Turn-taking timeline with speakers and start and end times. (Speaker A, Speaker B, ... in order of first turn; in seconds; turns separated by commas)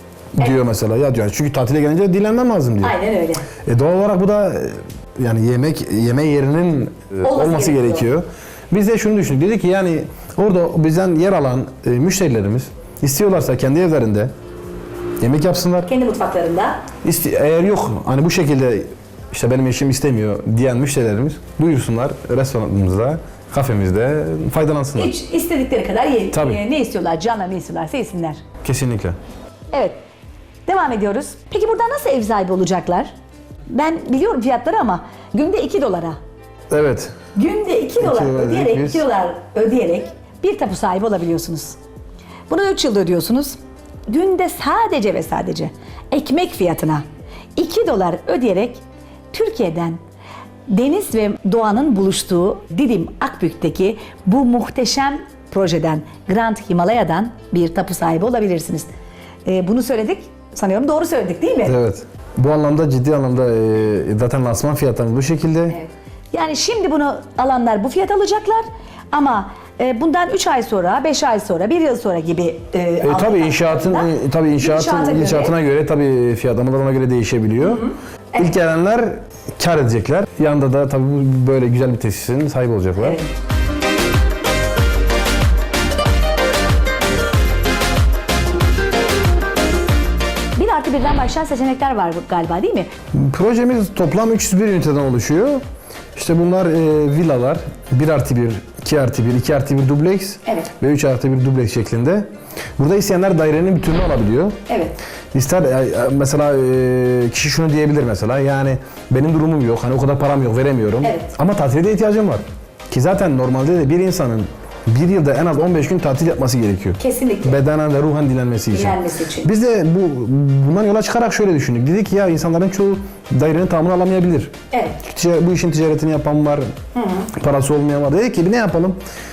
Speaker A: 0.4-2.9, Speaker B: 2.8-3.5, Speaker A: 3.6-14.3, Speaker B: 7.2-8.1, Speaker A: 15.2-15.9, Speaker B: 15.9-16.9, Speaker A: 17.0-25.1, Speaker B: 25.0-28.4, Speaker A: 26.3-26.6, Speaker A: 28.6-29.2, Speaker B: 29.7-30.0, Speaker B: 30.7-33.1, Speaker B: 33.7-36.2, Speaker A: 36.7-37.1, Speaker B: 37.4-41.8, Speaker A: 38.0-39.0, Speaker B: 42.5-47.0, Speaker B: 47.6-50.0, Speaker B: 50.7-58.9, Speaker B: 59.5-61.8, Speaker A: 61.7-65.8, Speaker B: 65.7-75.5, Speaker A: 73.0-83.2, Speaker B: 83.0-83.3, Speaker B: 90.6-92.9, Speaker A: 93.1-95.6, Speaker A: 96.2-104.6, Speaker B: 100.5-100.7, Speaker B: 104.7-105.0, Speaker A: 105.3-126.7, Speaker B: 111.0-111.3, Speaker B: 117.0-117.6, Speaker B: 118.7-119.5, Speaker B: 124.7-125.0, Speaker B: 127.0-127.3, Speaker A: 127.3-129.0